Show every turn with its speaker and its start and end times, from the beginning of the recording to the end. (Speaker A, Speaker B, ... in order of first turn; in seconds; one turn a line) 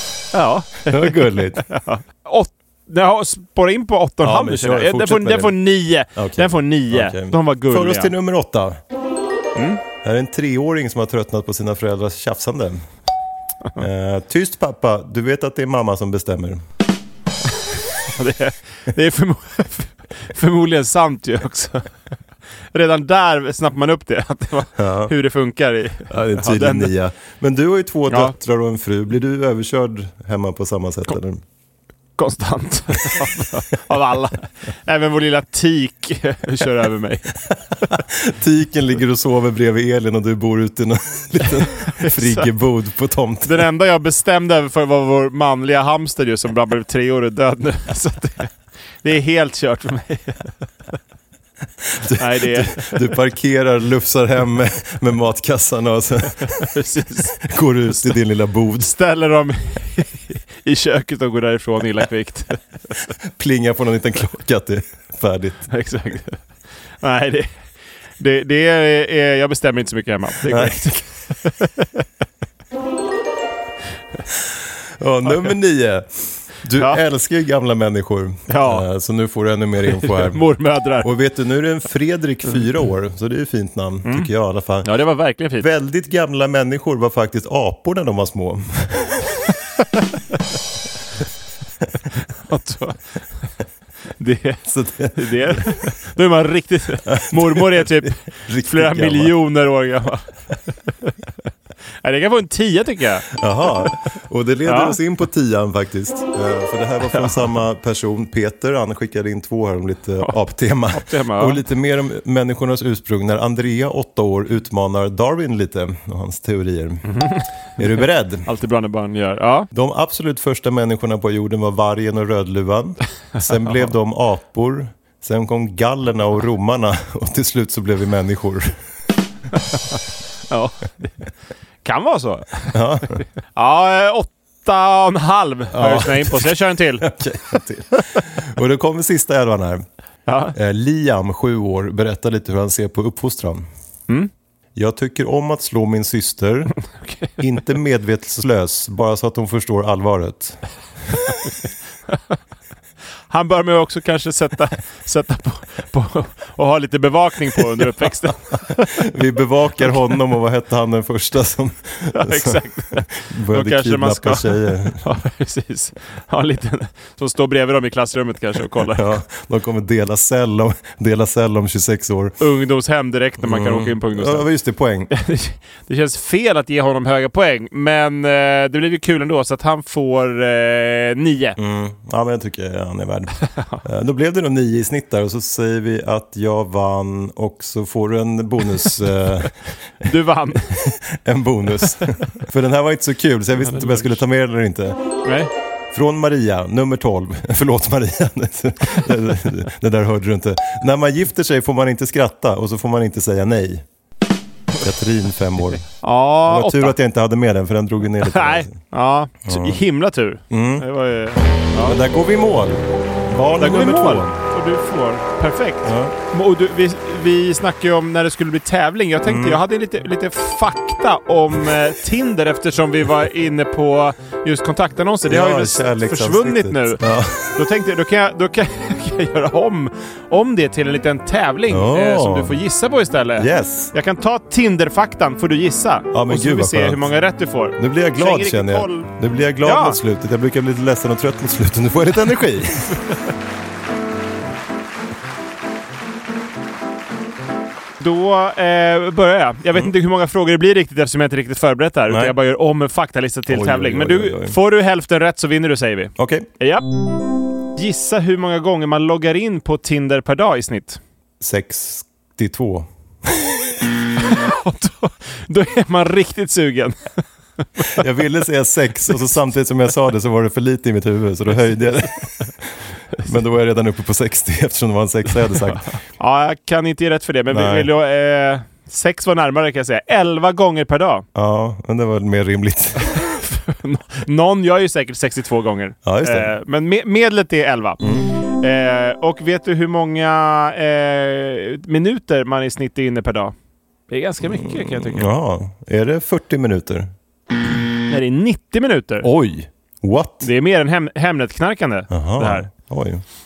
Speaker A: 0.3-8.1
Speaker B: 0.9-1.6
Speaker B: 4.2-5.6
Speaker B: 6.1-8.8
Speaker A: 9.5-9.8
Speaker B: 10.0-12.8
Speaker B: 13.8-16.6
Speaker A: 18.1-21.9
Speaker A: 22.7-26.9
Speaker B: 24.8-25.1
Speaker B: 26.1-31.4
Speaker A: 28.1-28.3
Speaker A: 32.2-37.3
Speaker B: 37.9-43.6
Speaker A: 41.9-42.5
Speaker A: 43.4-50.5
Speaker B: 51.9-56.7
Speaker A: 52.2-53.0
Speaker A: 56.6-57.4
Speaker B: 57.4-58.9
Speaker A: 58.8-62.6
Speaker B: 63.2-65.7
Speaker A: 65.7-66.4
Speaker A: 67.0-67.6
Speaker A: 68.2-72.0
Speaker B: 70.5-70.8
Speaker B: 74.4-80.4
Speaker A: 78.5-78.9
Speaker A: 79.9-81.1
Speaker B: 81.0-85.0
Speaker A: 84.0-84.3
Speaker A: 84.8-85.7
Speaker B: 85.6-89.2
Speaker A: 92.3-93.0
Speaker A: 94.2-100.3
Speaker B: 94.6-95.9
Speaker B: 97.1-99.3
Speaker A: 102.0-103.3
Speaker B: 103.3-118.5
Speaker A: 104.7-105.0
Speaker A: 110.9-111.6
Speaker A: 117.1-119.7
Speaker B: 119.7-128.7
Speaker A: 123.4-123.9
Speaker A: 129.7-131.3
Speaker A: 131.8-137.1
Speaker B: 132.7-133.2
Speaker B: 135.7-139.8
Speaker A: 140.3-140.6
Speaker B: 140.5-143.7
Speaker B: 144.7-146.7
Speaker A: 147.0-147.3
Speaker B: 147.4-150.6
Speaker A: 152.1-152.4
Speaker A: 153.3-159.0
Speaker B: 158.9-165.0
Speaker A: 162.1-169.1
Speaker B: 168.9-172.3
Speaker A: 172.4-174.5
Speaker B: 173.4-175.1
Speaker A: 175.1-181.6
Speaker B: 181.6-189.6
Speaker A: 183.6-183.8
Speaker A: 190.0-190.7
Speaker B: 190.6-195.0
Speaker A: 193.6-194.2
Speaker A: 195.2-195.5
Speaker B: 195.9-203.8
Speaker B: 204.8-205.9
Speaker A: 206.0-206.9
Speaker B: 206.4-208.8
Speaker A: 208.2-212.0
Speaker B: 209.4-209.8
Speaker B: 210.5-210.9
Speaker B: 211.8-214.3
Speaker A: 213.6-227.0
Speaker B: 215.8-216.1
Speaker B: 219.2-219.6
Speaker B: 225.2-227.6
Speaker A: 227.5-239.1
Speaker B: 231.7-232.6
Speaker B: 233.4-233.9
Speaker B: 236.1-237.1
Speaker B: 237.8-243.0
Speaker A: 239.6-240.0
Speaker A: 248.0-256.9
Speaker B: 252.1-252.3
Speaker B: 253.5-254.6
Speaker B: 256.2-256.5
Speaker A: 257.8-261.0
Speaker B: 261.4-263.5
Speaker A: 264.2-268.0
Speaker B: 267.8-275.9
Speaker A: 275.7-281.2
Speaker B: 277.5-277.9
Speaker B: 281.3-283.0
Speaker A: 283.0-293.5
Speaker B: 286.0-286.5
Speaker B: 288.0-288.3
Speaker A: 294.1-295.3
Speaker B: 294.4-297.1
Speaker A: 298.1-299.3
Speaker B: 299.2-300.5
Speaker A: 300.4-302.7
Speaker B: 302.1-303.2